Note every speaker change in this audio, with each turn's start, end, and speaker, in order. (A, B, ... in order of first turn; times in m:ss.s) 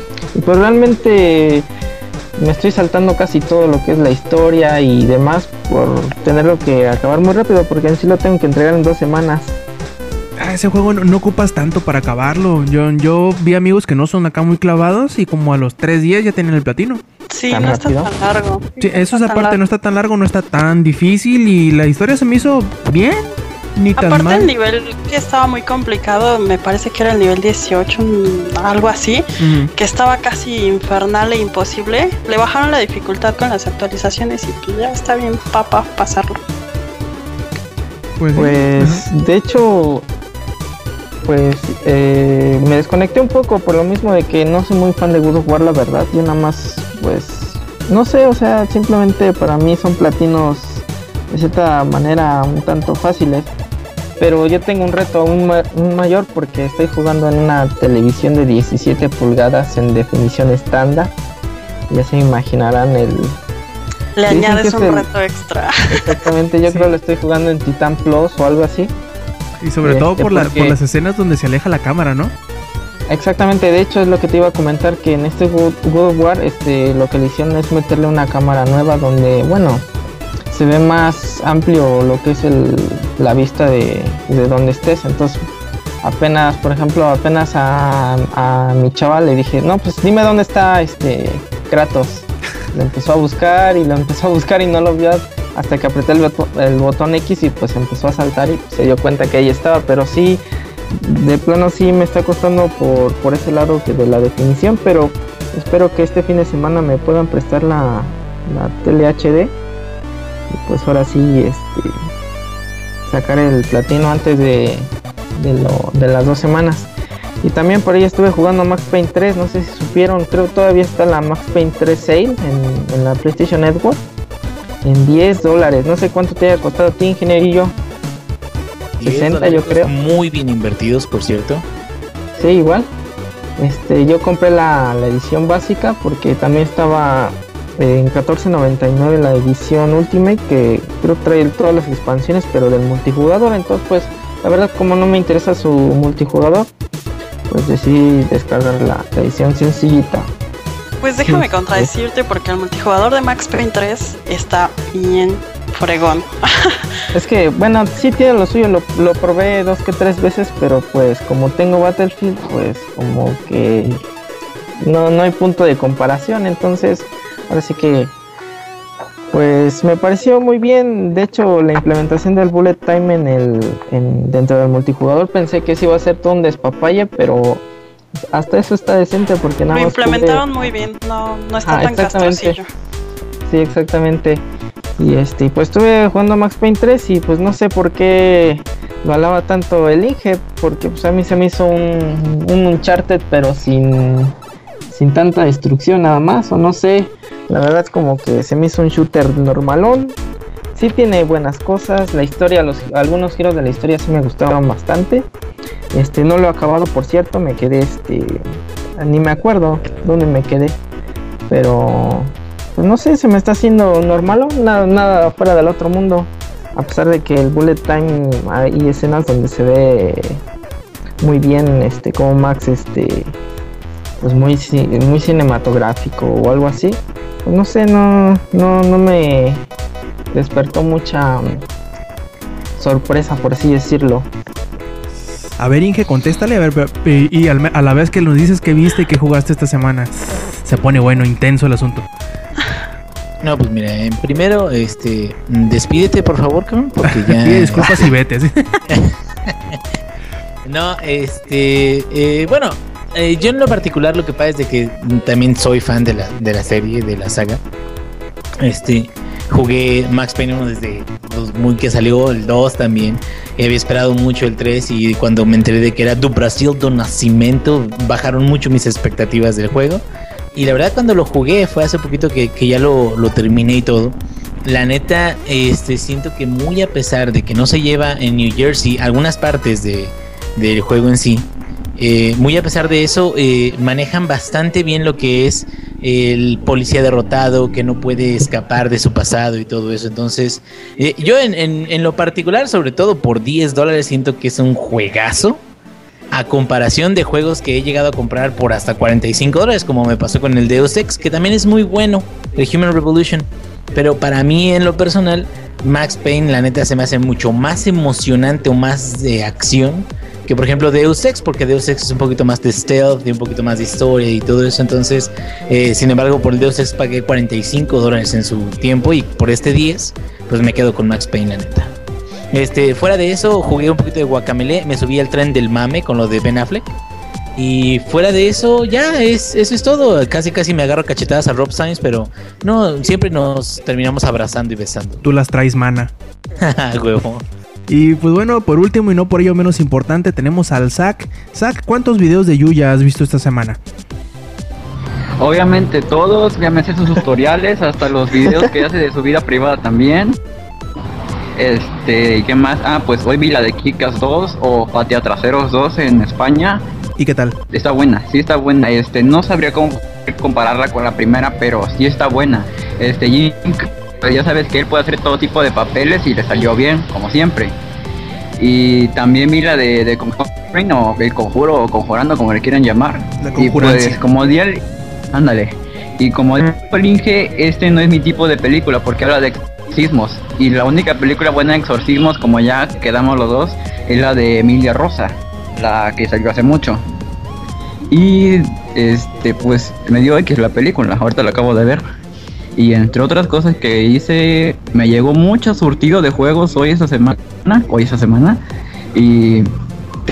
0:00.3-0:01.7 A
0:02.4-0:09.6 A
0:10.4-0:17.0 B
0:17.3-0:19.6 C
0:17.5-0:18.1 A
0:18.8-0:24.5 B
0:24.0-0:36.4 C
0:29.4-0:29.7 B
0:38.2-0:39.0 B
0:38.3-0:40.0 A
0:41.2-0:53.5 A
0:54.2-1:01.1 A
1:01.9-1:03.4 A
1:04.2-1:06.2 C
1:04.3-1:05.1 A
1:05.9-1:08.9 A
1:09.6-1:12.3 B
1:09.8-1:10.8 A
1:13.1-1:19.9 A
1:20.5-1:25.4 A
1:26.0-1:40.4 A
1:41.0-1:49.5 A
1:50.5-1:52.0 A
1:53.1-1:56.9 A
1:57.4-2:04.0 A
2:04.8-2:07.7 A
2:09.0-2:11.6 D
2:09.0-2:09.9 A
2:12.4-2:12.9 A
2:13.6-2:26.7 A
2:27.5-2:30.3 A
2:31.0-2:36.8 C
2:31.2-2:31.9 A
2:37.1-2:44.0 A
2:44.8-2:48.1 A
2:49.3-2:57.6 A
2:58.3-3:00.4 A
2:59.7-3:02.6 C
3:01.6-3:02.6 A
3:03.5-3:04.4 A
3:05.0-3:14.4 A
3:14.9-3:20.2 A
3:20.7-3:25.3 A
3:25.9-3:28.4 A
3:29.0-3:30.8 A
3:31.5-3:40.4 A
3:41.2-3:43.3 A
3:44.2-3:49.7 A
3:50.3-3:51.6 A
3:52.8-3:54.3 A
3:55.6-4:02.1 B
4:03.4-4:08.1 D
4:07.0-4:08.8 B
4:08.9-4:09.8 D
4:10.7-4:17.6 D
4:18.6-4:30.0 D
4:30.5-4:55.6 D
4:56.3-5:21.9 D
5:22.5-5:26.9 D
5:27.6-5:35.2 D
5:35.2-5:36.1 B
5:36.6-5:37.4 D
5:37.9-5:43.8 B
5:45.4-5:50.4 E
5:51.6-5:56.8 E
5:57.2-5:57.6 B
5:57.7-6:07.7 E
6:08.6-6:27.0 E
6:13.4-6:14.2 B
6:28.1-6:32.0 E
6:32.8-6:38.6 E
6:39.1-6:39.7 E